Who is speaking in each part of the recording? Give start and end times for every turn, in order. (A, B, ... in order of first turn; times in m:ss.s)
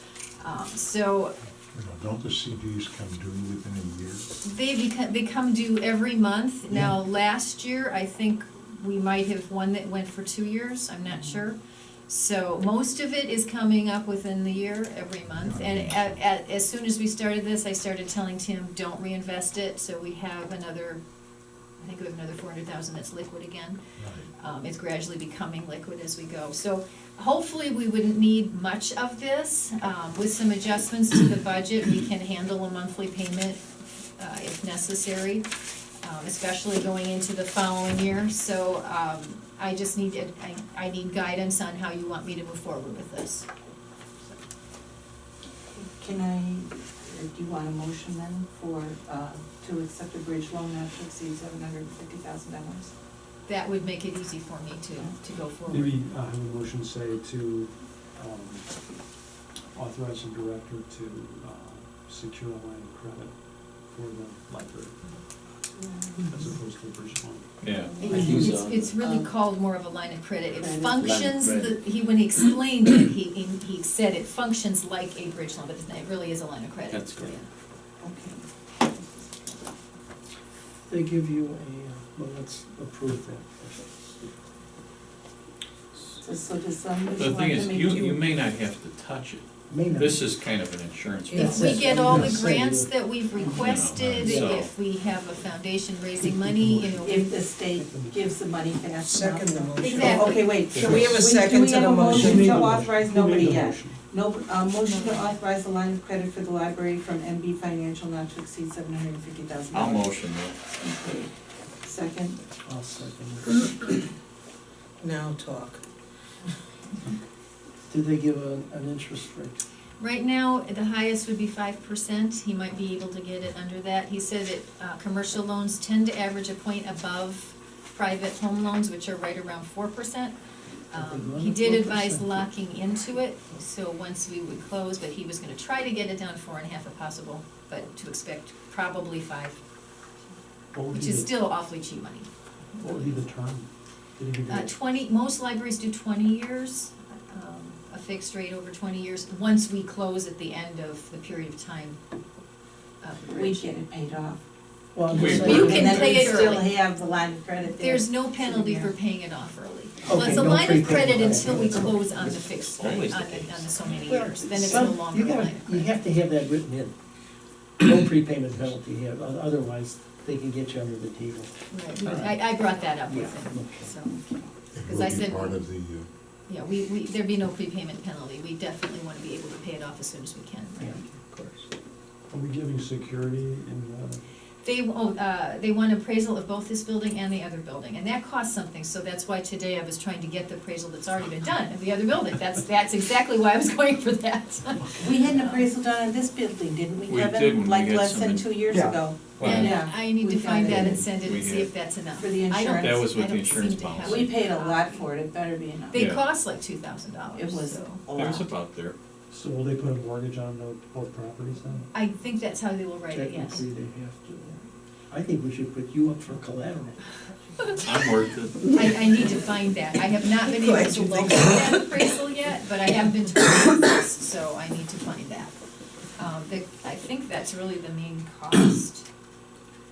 0:00.4-0:01.4 A
0:01.7-0:04.3 B
0:04.4-0:11.6 A
0:12.1-0:21.0 A
0:15.2-0:16.2 B
0:21.8-0:23.8 A
0:24.0-0:24.3 B
0:24.4-0:33.6 A
0:34.2-0:35.5 A
0:36.0-0:43.5 A
0:45.7-0:52.9 C
0:53.5-0:56.0 A
0:55.7-0:58.7 D
0:59.8-1:03.3 D
1:03.9-1:05.0 D
1:05.8-1:06.4 C
1:06.2-1:07.5 D
1:07.6-1:08.6 E
1:07.8-1:09.3 C
1:08.0-1:17.5 A
1:08.1-1:08.5 D
1:08.1-1:08.9 F
1:10.6-1:10.8 C
1:10.7-1:11.7 F
1:16.9-1:17.3 E
1:18.0-1:19.8 C
1:20.9-1:24.4 F
1:26.2-1:28.3 C
1:27.2-1:31.8 E
1:29.7-1:30.2 F
1:31.3-1:32.0 G
1:31.3-1:32.9 F
1:31.4-1:37.3 A
1:33.5-1:34.7 E
1:34.1-1:34.6 F
1:36.4-1:37.2 D
1:37.0-1:51.3 C
1:37.8-1:38.1 D
1:39.0-1:42.8 G
1:39.8-1:40.6 A
1:40.7-1:41.2 E
1:42.1-1:44.0 D
1:44.8-1:45.3 A
1:49.7-1:50.6 E
1:51.8-1:52.4 C
1:52.6-1:54.0 F
1:55.0-1:55.8 G
1:57.9-1:59.6 F
2:00.0-2:10.4 A
2:10.9-2:19.6 A
2:10.9-2:12.5 F
2:20.7-2:21.3 D
2:20.9-2:22.3 A
2:22.8-2:24.8 D
2:22.8-2:23.3 A
2:24.5-2:32.0 A
2:33.0-2:33.7 A
2:33.3-2:34.4 C
2:35.0-2:36.2 F
2:35.1-2:36.2 E
2:35.1-2:36.7 A
2:35.2-2:38.9 C
2:37.8-2:45.9 A
2:40.0-2:42.5 F
2:42.8-2:44.8 E
2:44.1-2:47.0 F
2:47.8-2:52.3 F
2:51.7-2:55.6 A
2:52.0-2:52.4 E
2:53.0-2:53.9 F
2:54.7-2:56.1 B
2:56.5-3:01.0 A
3:00.8-3:01.5 F
3:02.3-3:04.2 D
3:04.6-3:15.7 A
3:15.0-3:21.1 C
3:17.1-3:19.9 E
3:19.4-3:25.1 A
3:20.7-3:21.7 E
3:22.2-3:23.1 C
3:22.8-3:24.3 E
3:24.0-3:26.1 C
3:25.9-3:28.0 A
3:25.9-3:26.2 E
3:27.3-3:28.5 C
3:28.1-3:29.0 E
3:29.3-3:31.9 D
3:31.9-3:33.6 A
3:33.1-3:37.1 F
3:37.8-3:38.9 E
3:38.7-3:45.5 A
3:40.4-3:41.8 G
3:46.2-3:49.1 A